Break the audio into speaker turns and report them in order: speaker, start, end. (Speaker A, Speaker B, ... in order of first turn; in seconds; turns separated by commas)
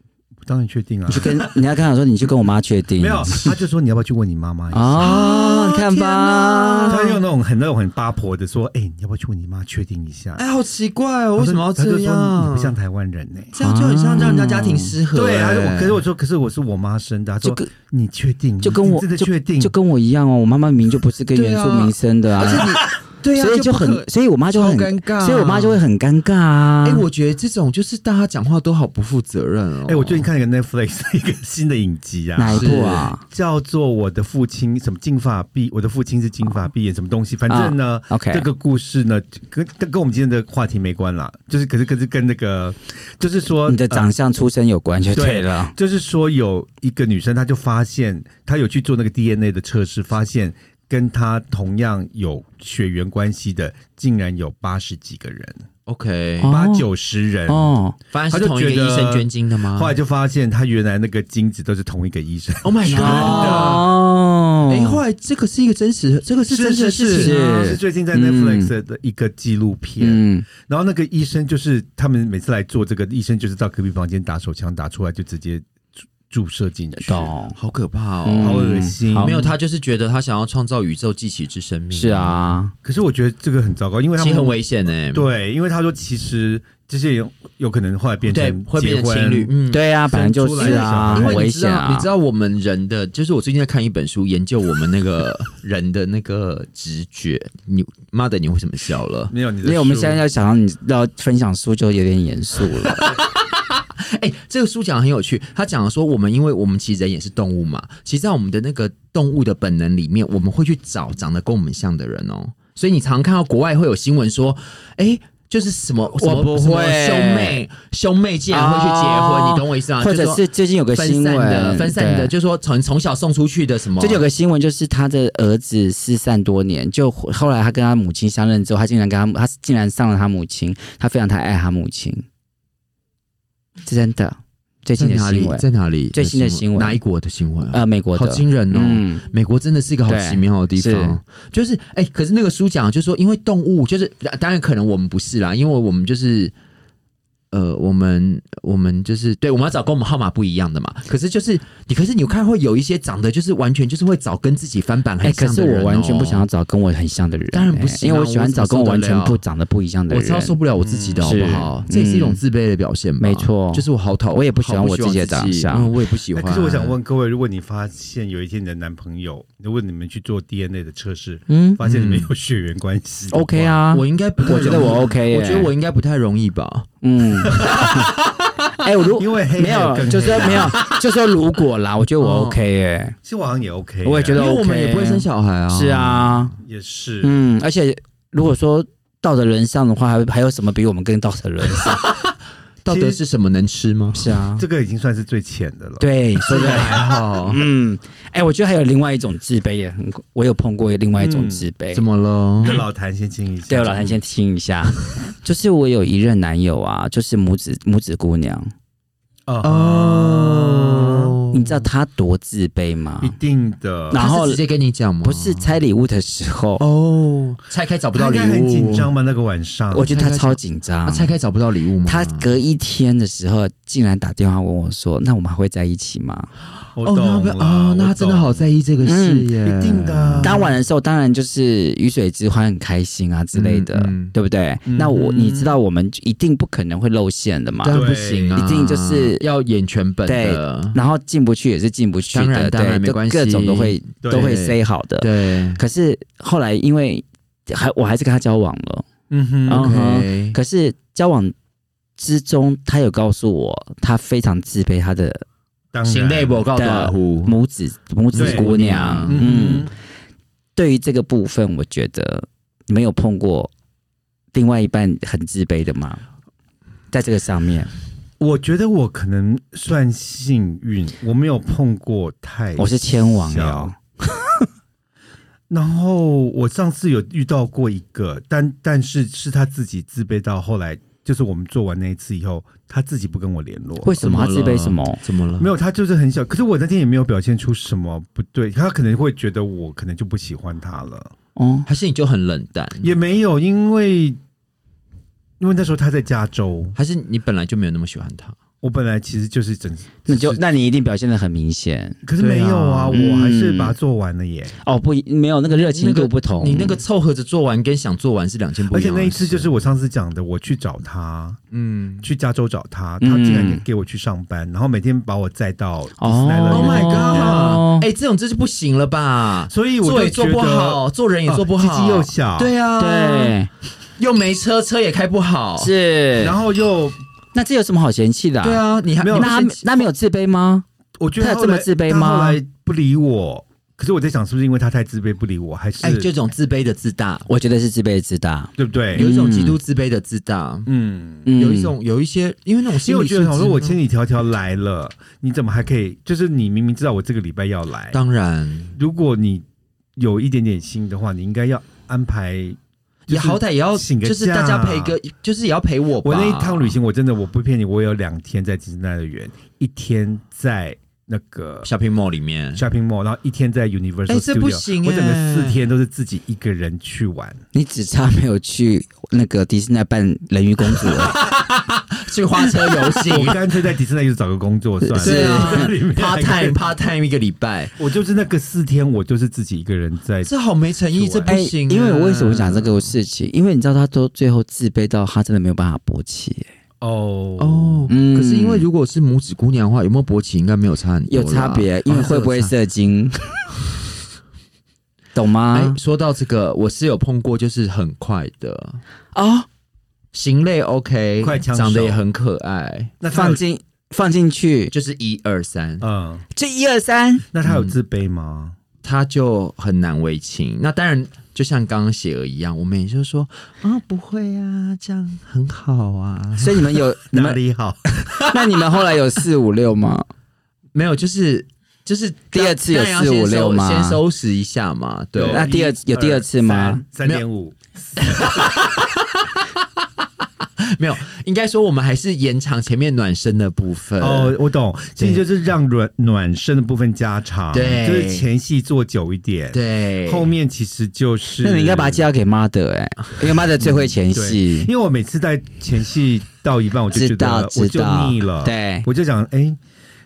Speaker A: 0.4-1.5, Speaker B: 1.1-3.5, Speaker A: 3.0-5.2, Speaker B: 4.7-7.0, Speaker C: 5.0-7.2, Speaker A: 6.9-10.4, Speaker C: 10.4-12.8, Speaker A: 11.4-13.6, Speaker C: 13.5-16.0, Speaker B: 13.6-14.9, Speaker A: 15.1-19.8, Speaker B: 17.4-17.7, Speaker B: 18.6-22.8, Speaker C: 21.3-25.8, Speaker B: 23.4-27.1, Speaker C: 26.8-30.3, Speaker A: 29.9-44.1, Speaker B: 32.4-33.2, Speaker C: 32.5-33.1, Speaker B: 37.5-38.5, Speaker B: 43.6-45.7, Speaker A: 45.1-55.6, Speaker C: 55.9-56.5, Speaker B: 56.4-56.9, Speaker A: 56.5-57.7, Speaker B: 57.5-58.0, Speaker C: 58.1-60.0, Speaker A: 58.3-63.9, Speaker C: 62.6-63.9, Speaker B: 62.9-65.0, Speaker C: 64.7-67.4, Speaker A: 66.5-75.7, Speaker B: 67.1-68.7, Speaker B: 70.0-70.5, Speaker A: 76.3-77.3, Speaker B: 77.0-77.6, Speaker C: 77.6-82.4, Speaker B: 78.2-79.4, Speaker A: 78.4-79.5, Speaker B: 81.9-82.7, Speaker A: 82.8-84.6, Speaker C: 84.2-85.3, Speaker A: 85.1-89.5, Speaker C: 88.3-89.8, Speaker B: 89.7-92.1, Speaker A: 90.1-91.5, Speaker C: 90.6-99.3, Speaker A: 99.3-100.2, Speaker B: 99.6-103.1, Speaker C: 102.8-124.2, Speaker B: 116.2-117.6, Speaker B: 118.5-122.3, Speaker B: 124.0-132.2, Speaker B: 133.8-137.0, Speaker C: 135.0-146.5, Speaker B: 137.7-139.2, Speaker B: 140.1-141.2, Speaker C: 147.5-156.5, Speaker B: 155.2-160.6, Speaker C: 157.5-159.4, Speaker C: 160.1-167.0, Speaker A: 160.8-161.5, Speaker B: 161.2-162.4, Speaker B: 163.2-165.9, Speaker A: 166.3-173.8, Speaker B: 171.5-171.8, Speaker C: 171.8-172.3, Speaker B: 173.3-175.7, Speaker C: 173.9-176.9, Speaker A: 174.4-175.0, Speaker B: 177.0-178.1, Speaker C: 177.4-178.7, Speaker A: 177.5-178.1, Speaker B: 178.8-183.2, Speaker A: 179.2-180.8, Speaker C: 180.2-181.0, Speaker C: 182.2-182.6, Speaker A: 183.2-184.4, Speaker B: 184.0-186.5, Speaker C: 184.3-186.5, Speaker A: 186.6-187.3, Speaker B: 187.2-192.0, Speaker C: 192.8-194.3, Speaker A: 192.9-193.2, Speaker B: 194.1-194.7, Speaker A: 194.6-197.2, Speaker B: 196.0-202.0, Speaker C: 196.5-197.6, Speaker A: 201.2-201.7, Speaker C: 201.9-202.8, Speaker A: 202.6-204.2, Speaker B: 203.7-208.7, Speaker A: 209.5-211.4, Speaker C: 209.6-211.9, Speaker B: 211.5-213.3, Speaker A: 213.2-214.2, Speaker B: 214.1-214.6, Speaker C: 214.1-215.7, Speaker B: 215.2-216.8, Speaker C: 216.8-219.1, Speaker A: 218.1-220.1, Speaker B: 219.9-221.3, Speaker C: 220.0-222.5, Speaker B: 222.1-226.5, Speaker A: 226.9-228.8, Speaker C: 227.0-230.6, Speaker B: 229.0-229.5, Speaker A: 229.6-230.7, Speaker B: 230.4-238.0, Speaker C: 233.5-234.3, Speaker A: 234.8-235.8, Speaker C: 237.8-241.0, Speaker A: 237.9-238.6, Speaker B: 238.6-239.4, Speaker B: 240.3-249.1, Speaker C: 242.3-245.8, Speaker A: 244.2-244.6, Speaker A: 249.3-249.9, Speaker B: 249.7-251.5, Speaker C: 249.7-250.6, Speaker B: 252.2-255.4, Speaker A: 255.9-256.7, Speaker C: 256.1-257.5, Speaker B: 256.8-259.9, Speaker C: 258.3-259.8, Speaker A: 258.4-258.7, Speaker A: 259.3-259.9, Speaker B: 260.8-263.7, Speaker B: 264.5-266.2, Speaker B: 267.1-267.9, Speaker A: 268.4-273.9, Speaker B: 272.8-274.7, Speaker A: 275.7-284.2, Speaker B: 284.0-285.2, Speaker C: 284.2-285.7, Speaker A: 285.6-291.3, Speaker B: 291.6-291.9, Speaker C: 291.9-293.1, Speaker A: 293.0-294.4, Speaker A: 295.6-297.0, Speaker C: 296.9-298.6, Speaker A: 298.8-300.6, Speaker B: 300.3-302.2, Speaker A: 302.2-304.8, Speaker C: 302.4-303.2, Speaker B: 303.1-304.0, Speaker B: 304.8-307.0, Speaker C: 305.7-309.7, Speaker A: 308.9-311.6, Speaker C: 311.7-312.3, Speaker A: 312.2-317.8, Speaker B: 313.2-313.8, Speaker B: 316.2-318.1, Speaker C: 316.7-323.6, Speaker A: 319.7-322.7, Speaker B: 323.0-323.7, Speaker C: 324.2-325.9, Speaker B: 325.8-326.6, Speaker A: 326.4-327.2, Speaker B: 327.5-330.9, Speaker C: 328.6-329.8, Speaker A: 329.2-330.0, Speaker A: 331.2-336.3, Speaker B: 331.4-332.6, Speaker C: 336.0-337.5, Speaker B: 337.5-339.8, Speaker A: 338.8-339.3, Speaker C: 339.1-340.9, Speaker A: 340.9-341.5, Speaker B: 341.5-341.9, Speaker C: 341.6-344.0, Speaker A: 343.0-348.2, Speaker C: 348.1-349.0, Speaker A: 348.9-349.6, Speaker A: 350.2-355.2, Speaker C: 353.3-357.0, Speaker A: 356.2-361.9, Speaker C: 361.9-362.9, Speaker A: 362.8-367.6, Speaker C: 364.3-365.8, Speaker B: 367.7-371.5, Speaker C: 371.0-373.6, Speaker A: 372.6-376.8, Speaker B: 375.2-375.9, Speaker C: 375.2-378.0, Speaker A: 378.0-380.5, Speaker C: 380.4-383.1, Speaker A: 381.1-381.6, Speaker B: 381.5-386.7, Speaker A: 387.0-388.1, Speaker C: 387.6-392.7, Speaker B: 388.1-388.9, Speaker B: 391.3-393.6, Speaker B: 395.4-396.0, Speaker C: 395.7-399.0, Speaker B: 399.4-399.7, Speaker C: 400.3-403.1, Speaker A: 401.4-402.2, Speaker A: 403.2-403.6, Speaker B: 403.3-404.9, Speaker C: 404.9-406.1, Speaker A: 406.0-406.4, Speaker B: 406.5-407.4, Speaker A: 407.5-408.8, Speaker C: 407.6-407.9, Speaker C: 409.0-417.0, Speaker B: 416.6-417.6, Speaker A: 417.3-418.4, Speaker C: 418.3-418.9, Speaker B: 418.4-420.3, Speaker C: 420.9-425.7, Speaker B: 422.5-424.2, Speaker A: 425.4-429.0, Speaker B: 425.5-427.0, Speaker C: 428.2-429.7, Speaker C: 430.8-434.6, Speaker A: 434.2-442.3, Speaker C: 435.2-435.4, Speaker C: 437.7-438.5, Speaker C: 439.7-440.5, Speaker B: 441.6-444.9, Speaker A: 444.3-449.8, Speaker B: 447.1-449.1